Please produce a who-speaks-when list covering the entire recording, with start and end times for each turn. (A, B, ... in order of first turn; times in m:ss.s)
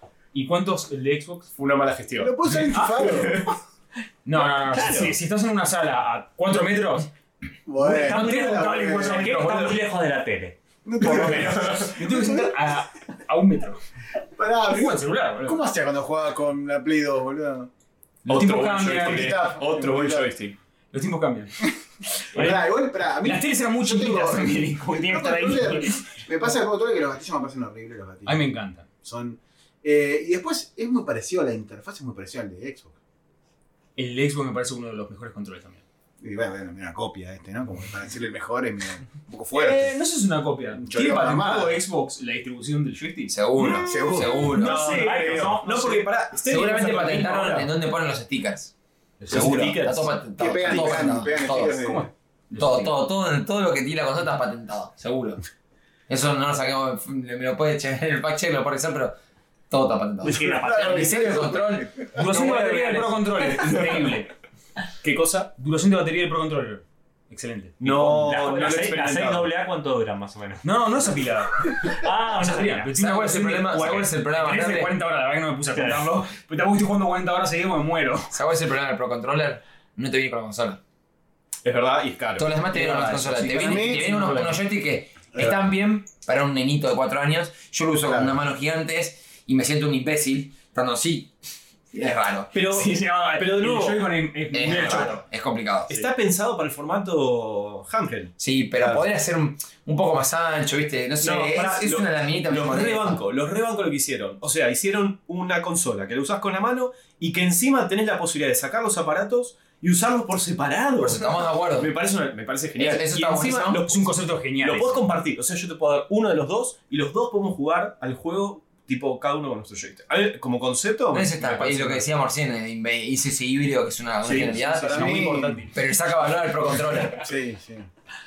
0:00.3-0:01.5 A
0:01.6-0:03.6 B
0:02.2-0:03.4 C
0:02.7-0:03.3 A
0:04.2-0:07.1 A
0:04.7-0:05.2 D
0:07.7-0:09.4 C
0:07.8-0:09.8 A
0:07.9-0:10.6 D
0:10.8-0:12.6 C
0:11.0-0:12.0 B
0:11.2-0:13.8 A
0:14.4-0:17.7 C
0:14.7-0:15.7 A
0:18.2-0:19.4 A
0:18.3-0:20.6 B
0:18.9-0:20.3 C
0:20.9-0:21.7 A
0:22.3-0:26.6 A
0:22.3-0:28.4 C
0:28.2-0:28.9 A
0:29.0-0:32.9 C
0:34.0-0:35.8 A
0:36.2-0:39.9 C
0:39.5-0:43.9 A
0:40.8-0:41.8 C
0:43.3-0:44.8 E
0:43.9-0:44.5 C
0:43.9-0:47.7 B
0:44.5-0:46.0 A
0:44.9-0:45.8 D
0:46.5-0:48.7 E
0:49.2-0:49.8 A
0:49.3-0:50.2 B
0:49.3-0:52.0 E
0:50.4-0:52.1 C
0:51.7-0:53.0 A
0:52.6-0:55.4 E
0:56.1-0:59.2 E
0:59.7-1:02.1 E
1:00.2-1:01.5 D
1:00.2-1:02.3 C
1:02.2-1:04.3 A
1:02.2-1:04.0 B
1:05.0-1:05.5 B
1:05.5-1:07.8 A
1:07.8-1:09.5 B
1:07.8-1:10.6 D
1:10.6-1:18.3 A
1:11.7-1:12.9 D
1:13.0-1:14.9 E
1:15.7-1:16.2 D
1:18.3-1:20.8 E
1:21.6-1:23.0 B
1:22.4-1:31.3 E
1:23.0-1:24.6 C
1:23.4-1:24.5 A
1:28.1-1:28.4 C
1:31.9-1:32.6 E
1:32.5-1:35.1 B
1:32.6-1:35.2 A
1:34.5-1:36.0 E
1:35.9-1:39.0 B
1:38.4-1:43.2 E
1:41.2-1:54.0 B
1:51.0-1:51.9 E
1:52.8-1:53.8 E
1:53.4-1:55.1 A
1:54.6-2:02.0 B
2:01.1-2:07.2 E
2:04.2-2:04.9 B
2:04.6-2:05.7 A
2:04.9-2:05.6 C
2:07.2-2:07.9 C